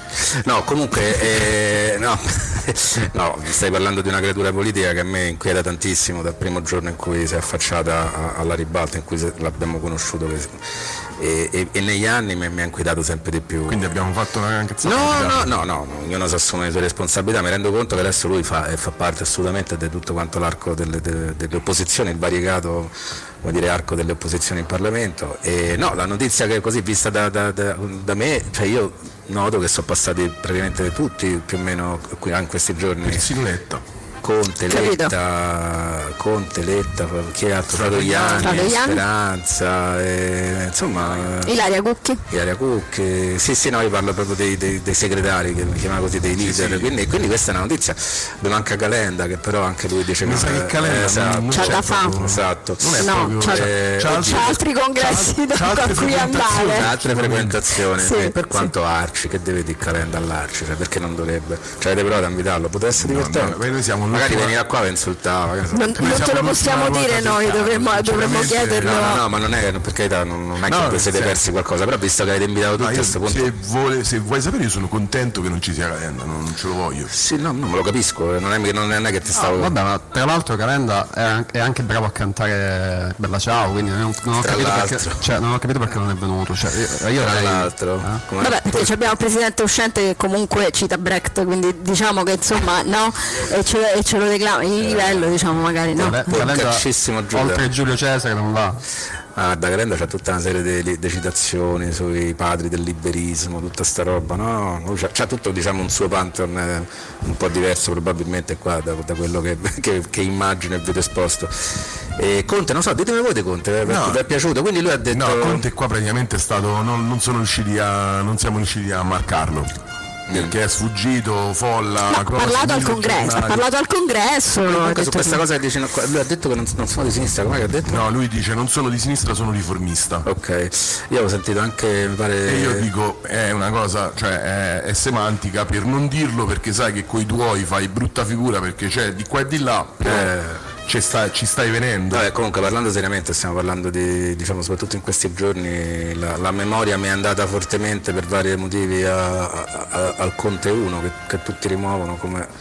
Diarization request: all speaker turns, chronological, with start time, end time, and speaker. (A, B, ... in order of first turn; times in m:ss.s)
0:00.2-0:10.6 A
0:11.2-0:13.8 A
0:13.7-0:15.5 B
0:14.8-0:33.3 A
0:33.0-0:33.8 B
0:34.2-0:41.5 A
0:34.7-0:35.1 C
0:37.7-0:38.8 B
0:38.4-0:39.0 C
0:41.4-0:42.2 C
0:42.3-0:54.5 A
0:46.4-0:46.9 B
0:50.2-0:57.6 B
0:51.5-0:52.2 C
0:53.0-0:56.9 C
0:56.5-1:03.6 A
0:57.9-0:58.7 C
1:03.0-1:04.6 B
1:04.1-1:06.0 A
1:05.7-1:09.2 C
1:06.0-1:09.2 B
1:08.8-1:13.5 A
1:10.6-1:11.4 B
1:12.8-1:17.1 B
1:17.1-1:19.7 A
1:19.3-1:28.2 D
1:24.4-1:25.2 A
1:27.1-1:28.9 A
1:28.4-1:36.5 C
1:34.8-1:35.3 A
1:35.9-1:38.8 D
1:36.3-1:37.6 A
1:39.4-1:55.6 A
1:53.8-1:54.2 B
1:55.1-1:59.7 B
2:00.3-2:00.5 A
2:00.3-2:03.7 B
2:02.1-2:05.4 C
2:04.6-2:08.0 A
2:07.9-2:10.3 B
2:10.2-2:12.9 A
2:12.4-2:22.2 B
2:20.0-2:20.6 A
2:22.1-2:32.5 A